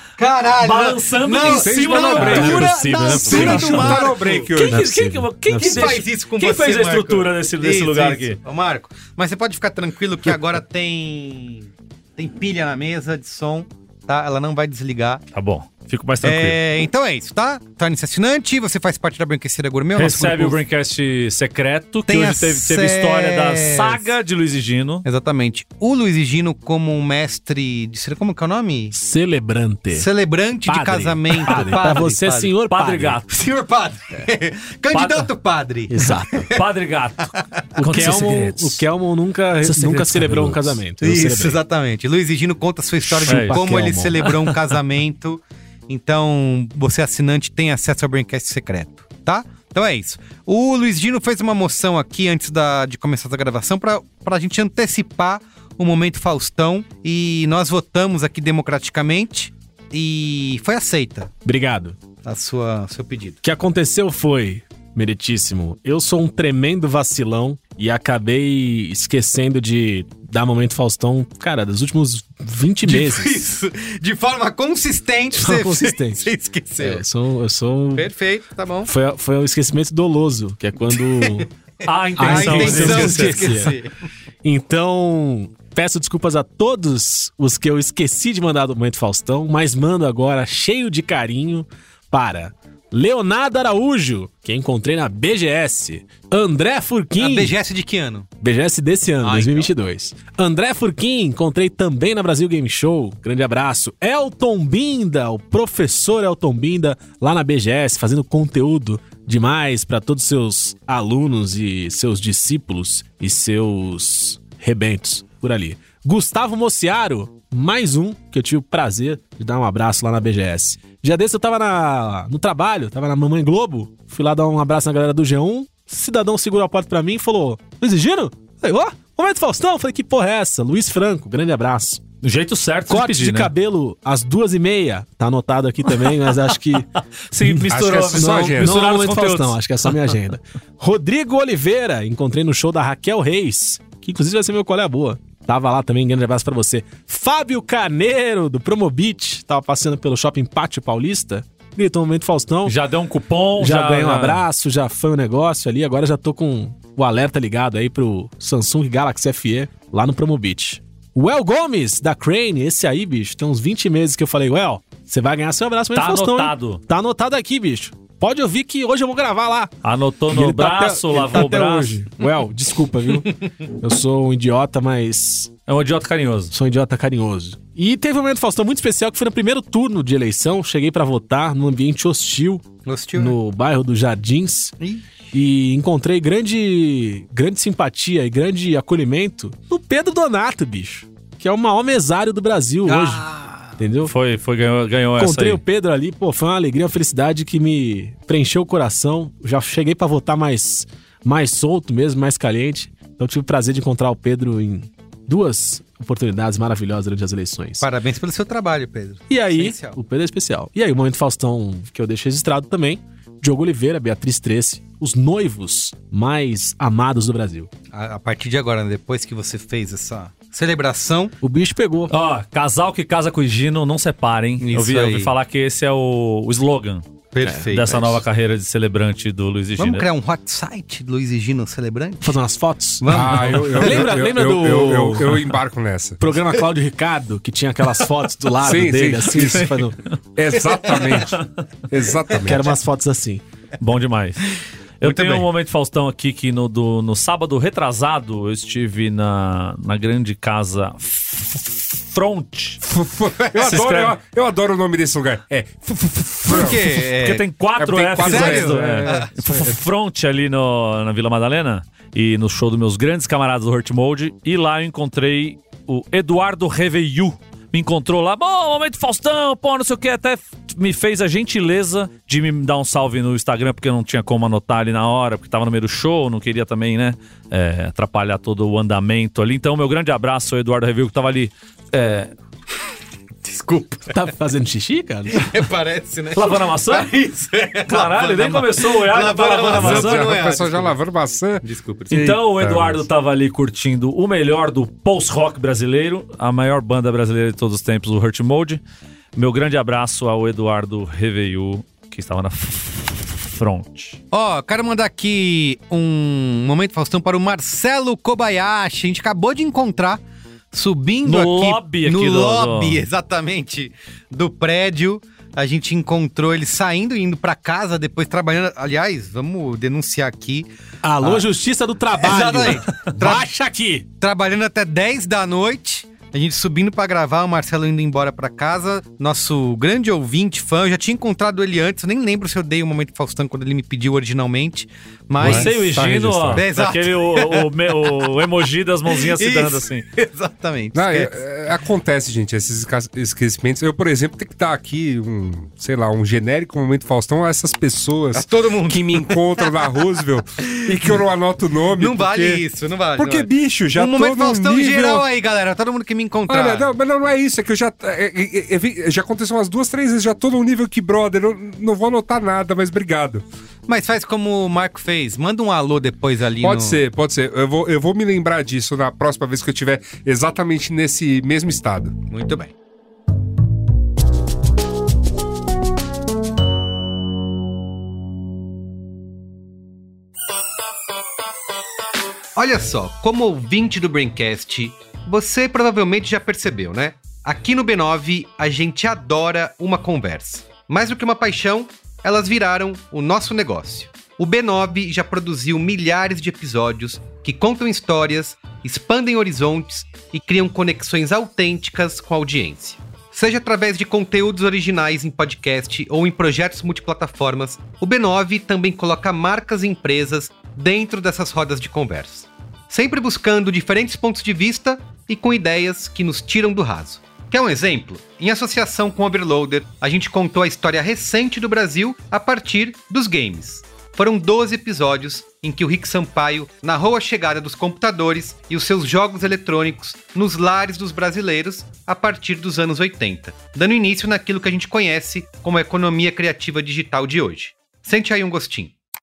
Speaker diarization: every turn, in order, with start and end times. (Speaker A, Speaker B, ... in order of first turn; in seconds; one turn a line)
Speaker A: 0.2-4.5
Speaker B: 0.6-2.8
Speaker C: 1.4-5.0
Speaker D: 2.1-4.0
Speaker B: 3.3-3.9
Speaker B: 4.5-8.4
Speaker D: 4.7-6.0
Speaker A: 5.6-15.2
Speaker B: 15.3-16.6
Speaker A: 16.2-20.6
Speaker B: 20.0-25.1
Speaker A: 22.1-24.1
Speaker A: 25.1-28.9
Speaker D: 28.9-30.1
Speaker A: 29.9-32.5
Speaker D: 30.7-33.2
Speaker B: 31.4-31.9
Speaker B: 32.7-33.3
Speaker A: 33.3-36.6
Speaker B: 34.9-35.3
Speaker D: 35.9-36.5
Speaker B: 36.5-38.8
Speaker D: 37.8-41.6
Speaker C: 39.6-40.8
Speaker A: 41.0-61.3
Speaker D: 43.0-44.2
Speaker B: 43.3-43.6
Speaker B: 44.2-44.6
Speaker D: 61.5-62.0
Speaker A: 62.2-63.4
Speaker D: 63.4-73.4
Speaker A: 72.8-77.0
Speaker D: 75.3-78.1
Speaker A: 78.0-78.9
Speaker D: 78.8-81.5
Speaker A: 80.9-81.5
Speaker B: 81.8-83.7
Speaker D: 82.2-83.7
Speaker A: 82.2-83.9
Speaker D: 84.4-97.5
Speaker A: 97.2-98.3
Speaker D: 98.4-132.0
Speaker A: 99.2-99.7
Speaker B: 132.2-133.5
Speaker D: 132.9-152.8
Speaker B: 137.3-139.6
Speaker C: 137.7-139.1
Speaker B: 152.7-154.4
Speaker D: 153.6-169.7
Speaker B: 165.9-166.8
Speaker B: 169.8-172.0
Speaker D: 170.3-175.5
Speaker B: 175.7-176.5
Speaker D: 176.5-184.8
Speaker A: 182.8-183.4
Speaker A: 184.8-185.1
Speaker D: 185.3-193.2
Speaker A: 192.9-193.7
Speaker D: 193.8-194.1
Speaker B: 194.1-195.6
Speaker D: 195.2-207.9
Speaker A: 207.8-210.0
Speaker D: 209.3-217.7
Speaker A: 217.9-221.3
Speaker D: 221.4-222.1
Speaker B: 222.1-227.0
Speaker A: 224.6-225.3
Speaker A: 227.3-228.2
Speaker B: 227.7-230.1
Speaker A: 229.8-232.4
Speaker D: 232.2-235.6
Speaker A: 233.0-234.2
Speaker C: 233.1-236.2
Speaker D: 236.2-240.0
Speaker C: 238.6-239.7
Speaker B: 239.3-239.8
Speaker C: 240.4-242.7
Speaker A: 240.8-241.3
Speaker D: 242.4-243.4
Speaker B: 243.8-244.5
Speaker B: 245.0-252.8
Speaker A: 245.0-245.5
Speaker C: 252.8-257.1
Speaker A: 253.3-254.1
Speaker B: 253.6-254.1
Speaker A: 256.5-257.4
Speaker B: 257.2-282.3
Speaker C: 257.8-259.8
Speaker A: 258.2-259.3
Speaker A: 283.4-284.1
Speaker D: 284.1-285.5
Speaker A: 285.3-291.0
Speaker B: 286.3-287.1
Speaker B: 287.9-290.4
Speaker C: 289.7-293.0
Speaker A: 291.6-292.4
Speaker B: 292.1-298.8
Speaker B: 299.4-304.2
Speaker A: 304.3-310.2
Speaker A: 310.7-320.7
Speaker B: 311.2-313.0
Speaker D: 321.0-324.1
Speaker A: 321.2-321.5
Speaker A: 322.2-323.5
Speaker A: 324.2-335.7
Speaker C: 335.4-336.6
Speaker B: 335.4-340.1
Speaker A: 336.5-338.3
Speaker A: 339.1-341.3
Speaker C: 340.9-352.6
Speaker A: 348.3-349.7
Speaker A: 350.9-351.2
Speaker A: 352.0-356.9
Speaker C: 353.2-355.2
Speaker C: 356.5-363.4
Speaker A: 363.9-367.0
Speaker C: 366.6-372.1
Speaker A: 372.3-372.7
Speaker A: 382.6-438.9